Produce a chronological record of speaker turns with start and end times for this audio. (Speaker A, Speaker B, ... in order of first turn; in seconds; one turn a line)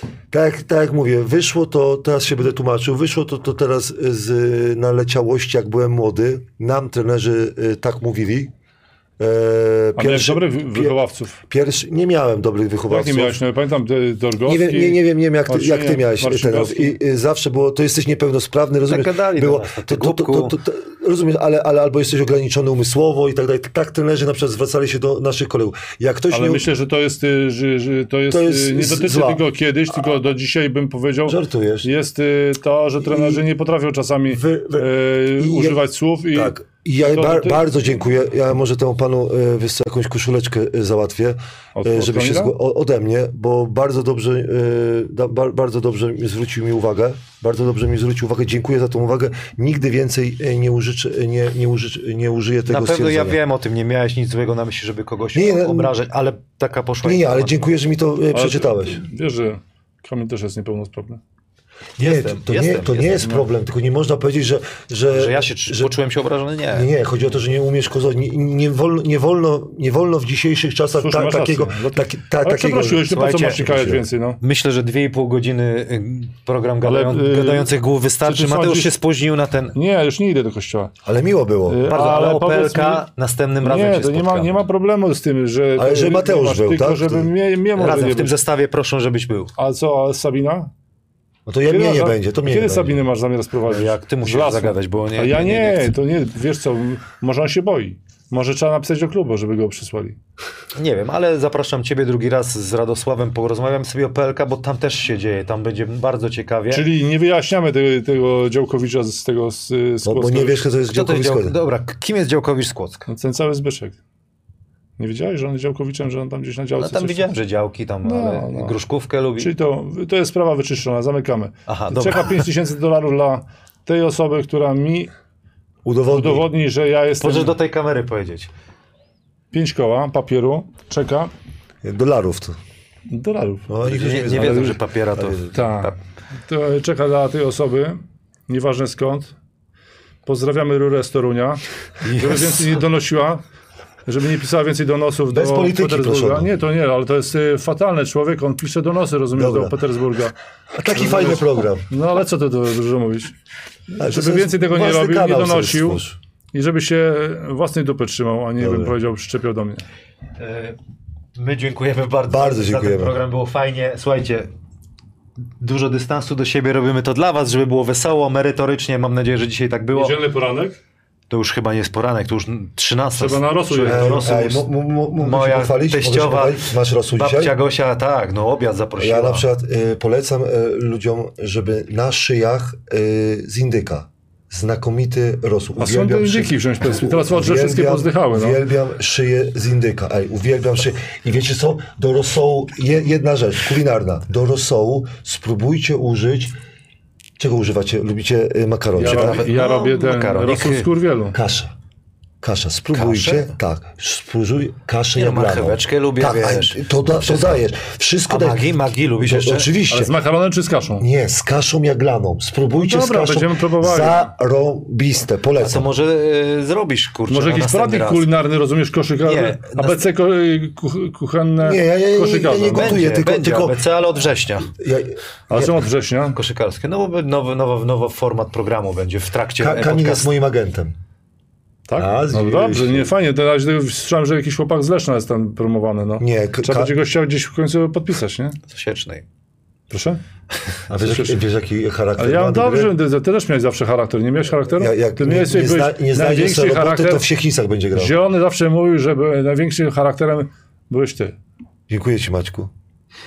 Speaker A: 0.3-8.5
Speaker A: 9.2-11.0
Speaker B: 10.0-11.4
Speaker A: 11.5-13.4
Speaker B: 12.9-17.0
Speaker A: 14.5-26.7
Speaker C: 18.9-20.6
Speaker B: 26.3-37.7
Speaker A: 28.3-29.4
Speaker A: 31.3-31.9
Speaker A: 33.0-33.5
Speaker A: 34.3-53.4
Speaker B: 41.8-42.5
Speaker C: 52.7-57.6
Speaker A: 55.3-55.9
Speaker A: 57.0-59.0
Speaker B: 58.3-61.2
Speaker C: 62.0-63.3
Speaker A: 62.0-65.9
Speaker C: 65.1-66.9
Speaker A: 66.7-74.0
Speaker B: 71.0-74.4
Speaker C: 73.1-73.8
Speaker C: 74.4-79.8
Speaker B: 76.8-77.7
Speaker B: 78.2-78.9
Speaker B: 79.7-80.9
Speaker A: 81.0-81.9
Speaker B: 81.7-83.0
Speaker C: 81.9-84.6
Speaker B: 83.6-88.3
Speaker A: 85.8-87.3
Speaker C: 87.8-89.5
Speaker B: 89.6-90.7
Speaker A: 91.5-93.0
Speaker B: 91.7-100.2
Speaker C: 93.7-95.9
Speaker C: 100.8-106.9
Speaker B: 106.7-110.7
Speaker A: 110.0-111.5
Speaker C: 110.9-113.1
Speaker B: 113.1-114.0
Speaker B: 115.0-117.4
Speaker C: 116.8-119.5
Speaker B: 118.0-118.8
Speaker B: 119.4-125.1
Speaker C: 121.7-122.4
Speaker A: 125.8-126.5
Speaker B: 126.1-127.5
Speaker C: 127.2-128.5
Speaker B: 129.5-131.3
Speaker A: 131.8-132.6
Speaker B: 133.1-133.7
Speaker A: 133.7-135.6
Speaker C: 133.8-136.0
Speaker B: 134.3-134.8
Speaker B: 135.5-135.9
Speaker B: 136.5-139.4
Speaker B: 140.3-143.4
Speaker C: 142.1-142.7
Speaker B: 144.1-150.3
Speaker A: 145.3-146.5
Speaker A: 149.3-149.8
Speaker A: 150.8-151.9
Speaker B: 151.0-151.4
Speaker B: 151.9-153.3
Speaker B: 153.9-156.0
Speaker A: 154.0-156.2
Speaker B: 156.5-159.8
Speaker A: 158.6-158.9
Speaker C: 160.4-160.8
Speaker C: 161.4-164.5
Speaker A: 162.3-163.2
Speaker C: 165.6-170.2
Speaker B: 169.9-170.8
Speaker C: 171.3-179.5
Speaker B: 173.2-174.2
Speaker A: 173.9-177.6
Speaker A: 179.0-196.5
Speaker B: 185.8-188.6
Speaker A: 197.4-199.4
Speaker B: 198.9-201.4
Speaker C: 199.0-200.9
Speaker A: 201.3-201.7
Speaker A: 202.4-208.7
Speaker C: 202.9-203.5
Speaker C: 205.2-207.6
Speaker C: 208.3-209.7
Speaker A: 209.2-210.2
Speaker B: 209.9-211.1
Speaker A: 211.0-215.9
Speaker B: 212.7-214.3
Speaker C: 215.6-218.3
Speaker B: 217.3-223.0
Speaker C: 219.2-220.1
Speaker A: 221.6-223.8
Speaker C: 222.8-224.7
Speaker A: 224.7-225.7
Speaker B: 225.5-226.4
Speaker C: 226.3-230.3
Speaker A: 229.6-231.0
Speaker B: 231.9-238.6
Speaker A: 232.0-233.1
Speaker A: 236.2-236.9
Speaker C: 238.7-239.2
Speaker B: 239.9-240.2
Speaker A: 240.9-243.0
Speaker B: 241.0-241.4
Speaker B: 242.2-247.2
Speaker A: 244.7-248.2
Speaker B: 247.9-251.4
Speaker A: 251.9-252.7